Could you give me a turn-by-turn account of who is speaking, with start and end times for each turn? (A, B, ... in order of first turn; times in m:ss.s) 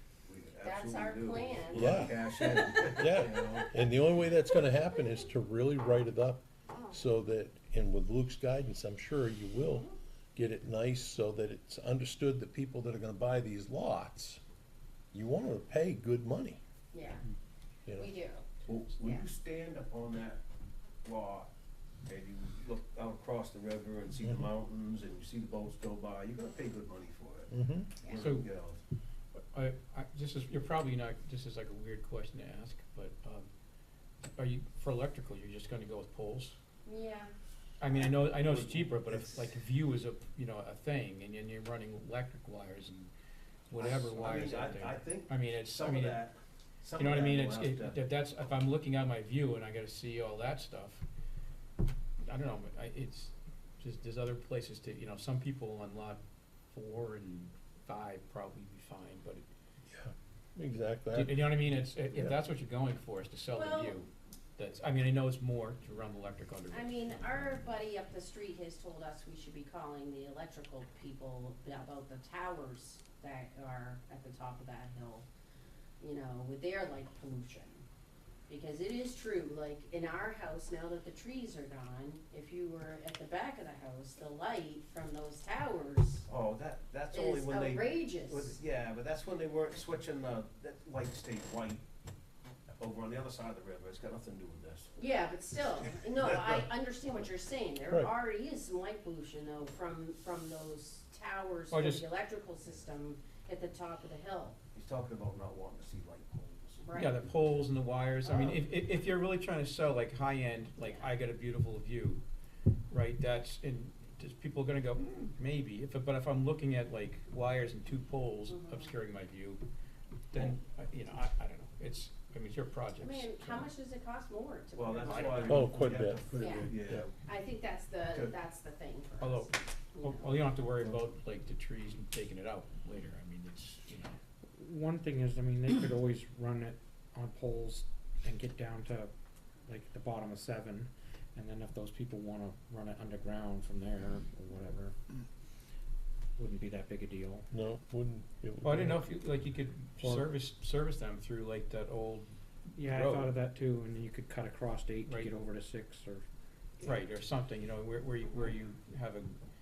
0:00.2-0:03.8 A
0:00.6-0:03.2 B
0:01.7-0:02.2 C
0:03.0-0:14.4 C
0:15.1-0:16.6 C
0:16.9-0:17.2 B
0:17.9-0:18.4 B
0:18.6-0:20.4 A
0:19.0-0:19.2 B
0:21.0-0:21.5 A
0:22.0-0:28.8 A
0:27.5-0:28.0 C
0:28.1-0:28.5 D
0:29.4-0:33.5 D
0:34.4-0:36.6 D
0:36.8-0:37.3 B
0:37.8-0:43.1 D
0:38.3-0:39.5 A
0:43.7-0:46.3 D
0:43.8-0:48.0 A
0:46.9-0:51.0 D
0:52.2-0:59.4 D
0:59.9-1:02.3 C
1:01.1-1:07.7 D
1:03.5-1:04.0 B
1:06.7-1:15.2 B
1:16.0-1:17.8 B
1:18.5-1:26.2 B
1:26.3-1:31.8 A
1:27.1-1:28.5 B
1:32.8-1:34.9 A
1:35.0-1:44.6 B
1:35.8-1:36.7 A
1:41.7-1:42.1 D
1:44.7-1:47.2 A
1:46.8-1:47.2 B
1:46.9-1:52.2 D
1:48.2-1:48.6 B
1:50.8-1:51.1 B
1:52.9-1:59.6 D
1:58.5-1:58.9 B
2:00.3-2:03.7 D
2:03.0-2:05.7 B
2:04.7-2:07.1 A
2:05.0-2:05.6 D
2:05.5-2:07.0 C
2:06.4-2:06.7 B
2:07.2-2:10.2 B
2:09.2-2:14.2 D
2:14.6-2:19.1 E
2:19.6-2:25.0 E
2:26.4-2:27.5 E
2:27.5-2:28.9 C
2:28.6-2:33.3 D
2:30.0-2:30.3 E
2:32.7-2:36.2 E
2:35.0-2:35.3 D
2:36.8-2:39.4 D